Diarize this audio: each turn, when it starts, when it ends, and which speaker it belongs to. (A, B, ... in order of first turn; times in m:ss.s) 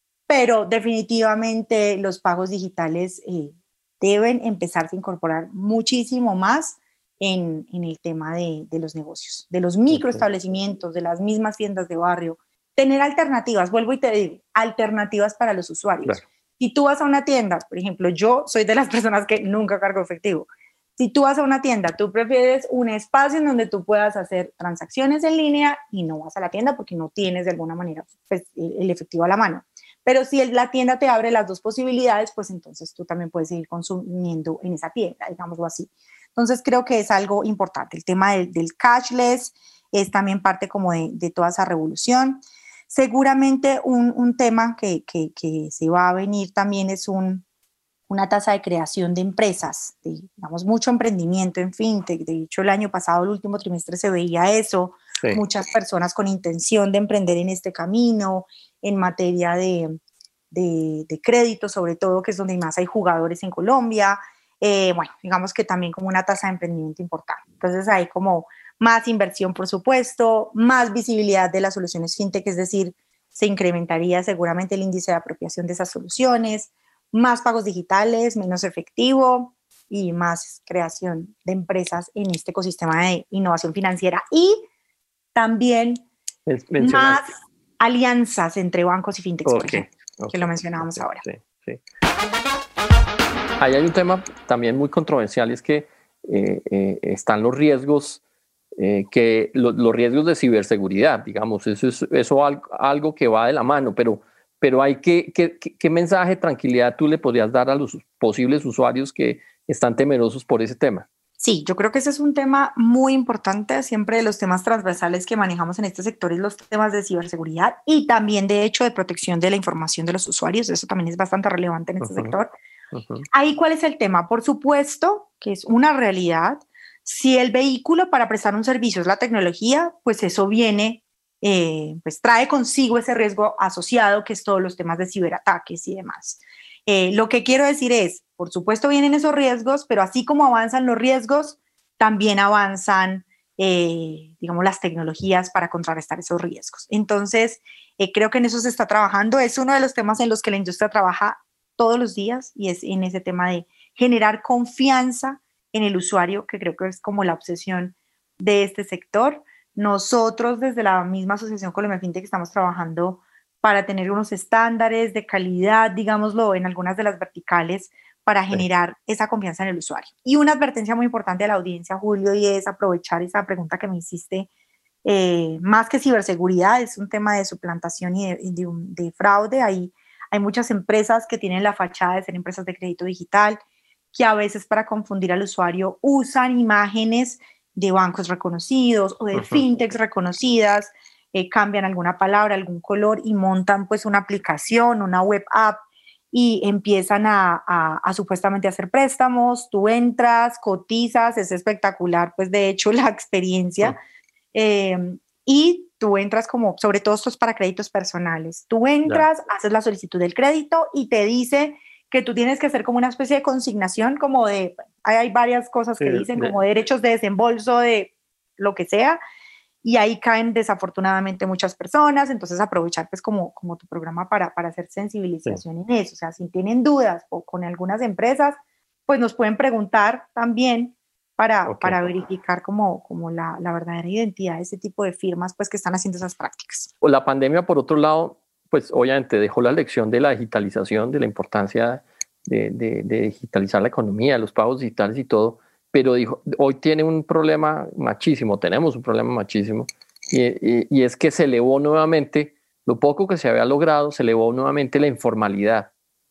0:00.3-0:47.4 A
0:09.9-0:10.2 B
0:48.1-1:00.0 A
1:00.5-1:24.6 A
1:25.4-1:26.1 A
1:26.5-1:27.3 B
1:26.8-1:31.2 A
1:29.4-1:31.8 B
1:33.6-1:38.2 B
1:38.8-1:51.1 B
1:51.4-2:02.5 A
2:02.0-2:02.3 B
2:02.9-2:03.3 B
2:03.3-2:54.5 A
2:55.0-3:03.6 A
3:04.1-3:24.0 A
3:09.3-3:09.6 B
3:24.5-3:39.2 A
3:36.0-3:36.6 B
3:39.8-3:56.9 A
3:51.7-3:52.0 B
3:57.0-4:15.9 B